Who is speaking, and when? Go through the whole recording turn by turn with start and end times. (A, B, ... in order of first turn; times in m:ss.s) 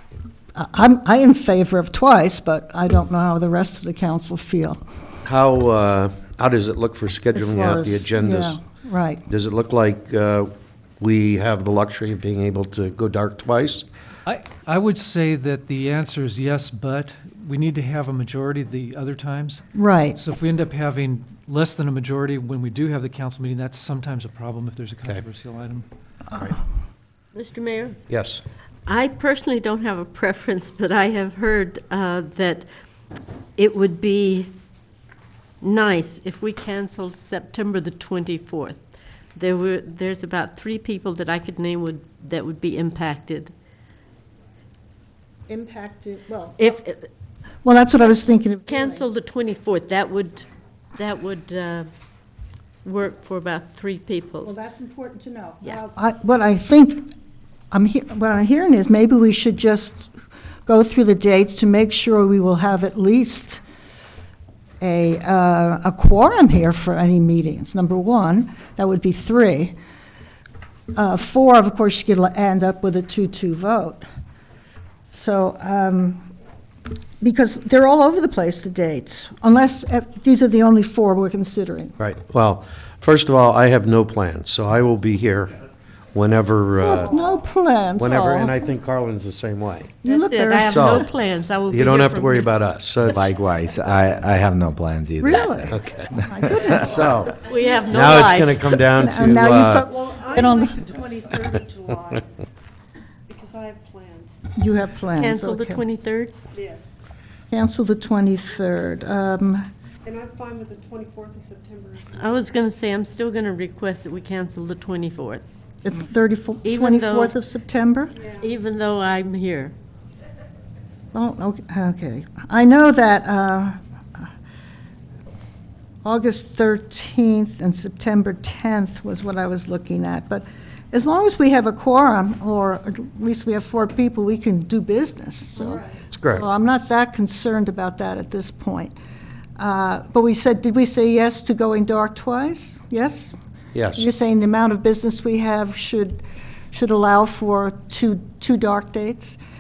0:00.6-0:04.8 A
0:05.2-0:08.6 B
0:07.4-0:09.2 A
0:09.3-0:13.8 B
0:14.3-0:25.9 C
0:19.7-0:20.2 A
0:27.4-0:28.0 D
0:28.1-0:28.4 B
0:28.9-0:32.7 D
0:33.6-0:34.5 D
0:35.6-0:38.8 D
0:39.4-0:43.5 D
0:45.5-0:46.8 A
0:46.6-0:47.0 D
0:47.6-0:49.0 A
0:48.7-0:50.5 D
0:51.0-0:51.9 D
0:52.8-0:54.5 D
0:54.4-0:57.1 A
0:57.7-1:00.1 A
1:00.7-1:03.6 A
1:04.8-1:09.8 A
1:10.9-1:14.1 A
1:15.1-1:16.3 A
1:17.2-1:22.0 A
1:22.0-1:25.6 B
1:26.1-1:27.2 B
1:26.8-1:28.6 A
1:28.0-1:29.9 B
1:30.0-1:31.0 A
1:30.0-1:32.5 D
1:30.6-1:31.1 B
1:31.7-1:33.3 B
1:33.0-1:36.8 E
1:35.2-1:37.2 A
1:35.7-1:36.1 B
1:36.7-1:39.9 B
1:37.4-1:38.8 D
1:37.6-1:37.9 F
1:38.9-1:40.8 A
1:39.7-1:42.4 F
1:43.3-1:44.4 F
1:44.6-1:45.8 A
1:45.2-1:46.4 D
1:46.5-1:46.9 F
1:47.5-1:49.7 A
1:50.0-1:52.5 F
1:52.2-1:55.4 D
1:55.8-1:58.2 A
1:56.6-1:57.4 D
1:58.2-1:58.5 F
1:58.4-1:59.7 D
2:01.1-2:04.3 A
2:06.0-2:19.0 A
2:15.6-2:16.0 F
2:16.1-2:16.5 B
2:19.6-2:23.4 A
2:23.7-2:24.1 B
2:24.0-2:29.4 A